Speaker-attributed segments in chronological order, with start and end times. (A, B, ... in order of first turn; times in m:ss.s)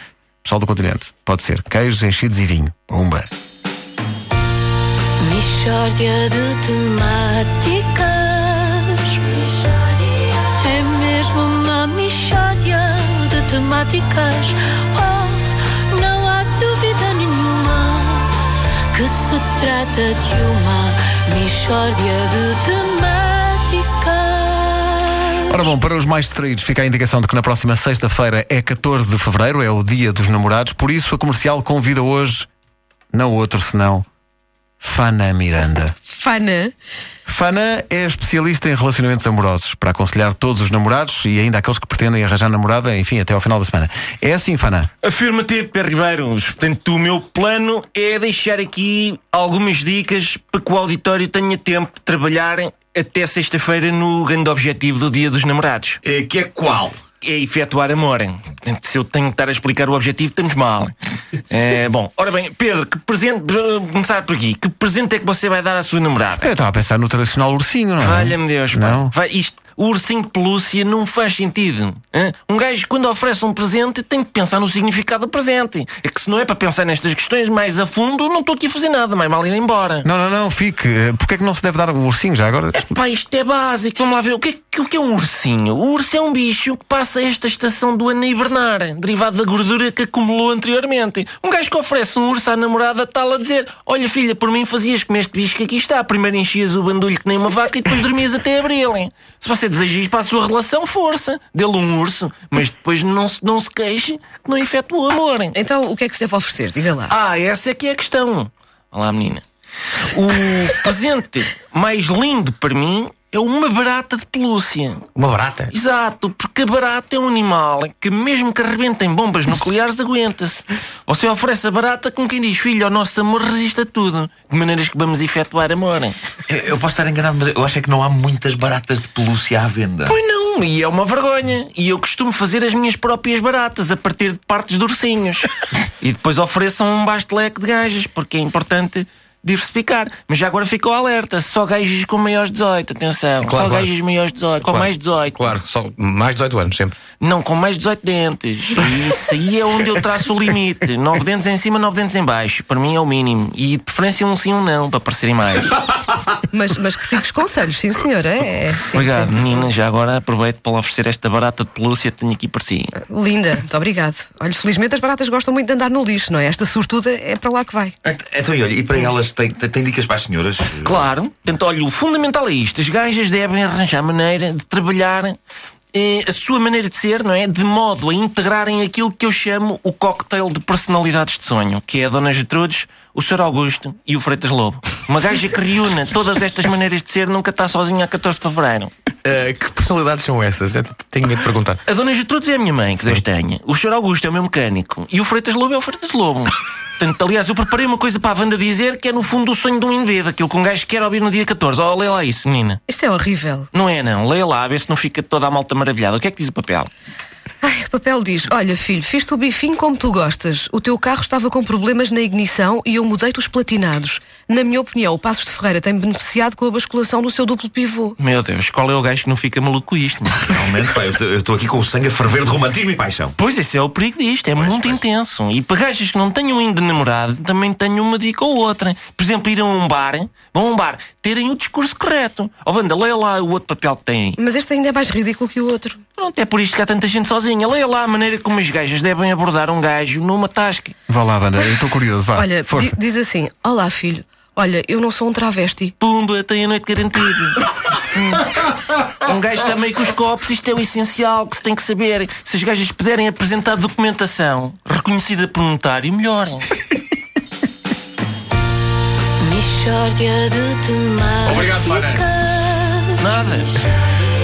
0:00.4-0:03.3 A
0:05.2-0:18.4 B
0:18.9-0:25.3 B
0:25.3-0:32.5 A
0:33.1-0:34.1 A
0:34.8-0:36.0 A
0:36.1-0:36.7 C
0:37.3-0:44.9 A
0:45.0-0:56.0 D
0:56.0-0:57.0 E
0:57.2-1:00.9 D
1:01.5-1:06.5 D
1:06.4-1:09.1 A
1:08.0-1:20.1 D
1:20.0-1:22.8 A
1:22.7-1:45.6 D
1:45.6-1:47.2 C
1:47.1-1:49.4 D
1:50.0-1:55.1 D
1:55.2-1:55.7 F
1:55.7-2:06.2 D
2:06.5-2:10.2 E
2:10.0-2:25.4 D
2:23.4-2:23.9 F
2:24.6-2:27.0 F
2:27.2-2:35.8 D
2:36.5-2:39.6 C
2:38.9-2:43.0 D
2:43.0-2:48.0 C
2:48.0-2:51.1 E
2:50.8-2:55.4 D
2:55.9-3:08.9 D
3:09.2-3:11.8 F
3:11.9-3:22.8 D
3:22.9-3:23.7 C
3:23.7-3:26.9 D
3:27.6-3:38.2 C
3:38.2-3:40.6 D
3:40.4-3:43.4 E
3:43.4-3:54.4 D
3:44.6-3:45.0 E
3:54.4-3:56.0 C
3:56.2-4:01.0 D
4:01.1-4:03.0 A
4:02.4-4:06.0 C
4:06.0-4:16.8 D
4:19.4-4:23.3 B
4:21.4-4:22.3 F
4:23.2-4:23.8 D